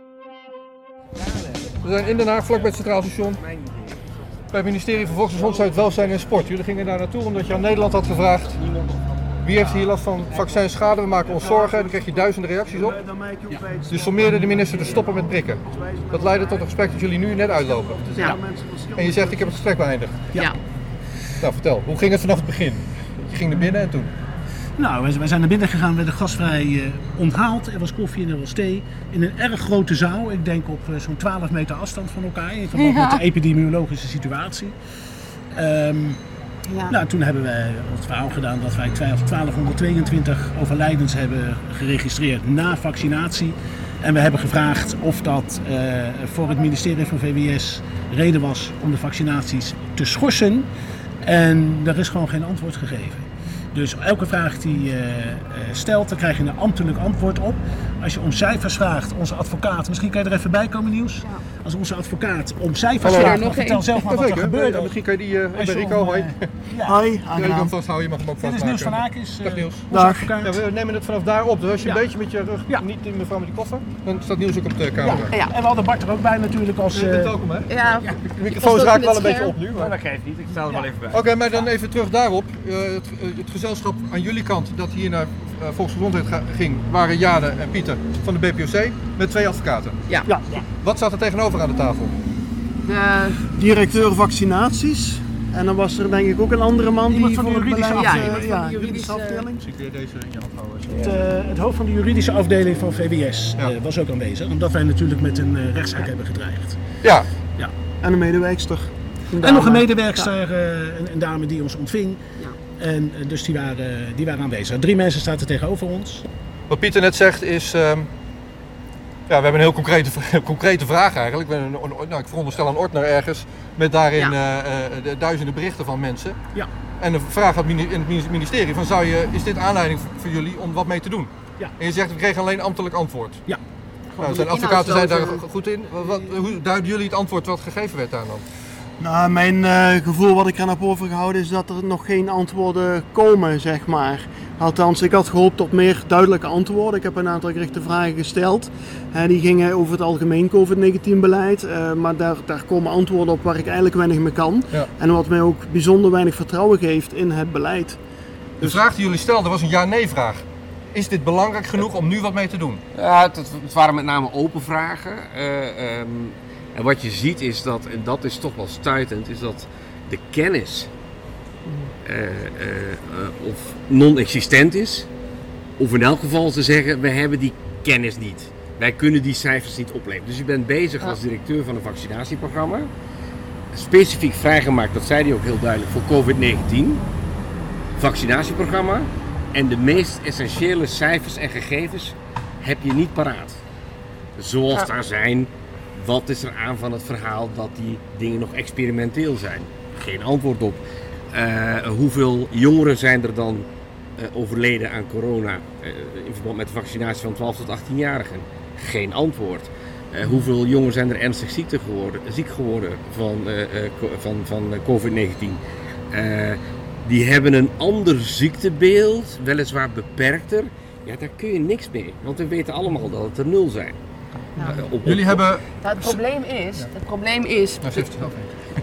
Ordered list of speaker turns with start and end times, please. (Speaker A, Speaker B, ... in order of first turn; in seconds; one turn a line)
Speaker A: 1.2-2.8
Speaker B: 1.8-3.4
Speaker A: 3.4-4.0
Speaker B: 4.5-8.6
Speaker A: 4.9-6.4
Speaker A: 8.5-11.4
Speaker B: 9.4-13.0
Speaker C: 11.3-19.7
Speaker B: 13.9-18.3
Speaker B: 18.9-20.3
Speaker B: 21.4-24.1
Speaker D: 24.8-34.7
Speaker E: 32.7-33.2
Speaker D: 35.5-36.2
Speaker E: 36.7-37.0
Speaker D: 36.9-50.7
Speaker D: 51.2-65.0
Speaker E: 63.0-64.1
Speaker B: 64.1-66.5
Speaker D: 65.5-67.0
Speaker C: 66.8-67.7
Speaker B: 67.3-69.9
Speaker D: 68.4-70.6
Speaker C: 69.9-70.3
Speaker B: 70.4-75.3
Speaker D: 75.0-77.3
Speaker B: 76.9-77.7
Speaker E: 77.7-79.6
Speaker A: 78.0-78.5
Speaker B: 78.3-79.9
Speaker A: 79.7-81.7
Speaker B: 81.1-90.0
Speaker C: 90.2-90.6
Speaker B: 90.8-92.1
Speaker E: 92.8-93.5
Speaker C: 93.5-99.6
Speaker E: 97.1-99.5
Speaker D: 97.5-98.5
Speaker B: 99.6-101.0
Speaker A: 100.9-101.2
Speaker D: 100.9-106.8
Speaker B: 107.0-107.3
Speaker C: 108.0-110.3
Speaker D: 109.4-116.2
Speaker B: 116.7-118.1
Speaker B: 119.3-126.4
Speaker B: 127.0-133.4
Speaker E: 134.1-135.4
Speaker B: 134.2-138.4
Speaker C: 139.0-158.0
Speaker B: 158.6-162.8
Speaker A: 162.9-170.9
Speaker E: 171.7-171.9
Speaker A: 172.0-175.1
Speaker A: 175.8-182.9
Speaker A: 183.7-187.0
Speaker A: 188.0-193.6
Speaker A: 194.4-200.8
Speaker A: 201.3-203.7
Speaker A: 204.2-215.6
Speaker A: 216.1-223.9
Speaker E: 224.6-224.8
Speaker B: 224.6-226.2
Speaker A: 224.6-225.4
Speaker E: 225.8-228.1
Speaker B: 227.8-228.5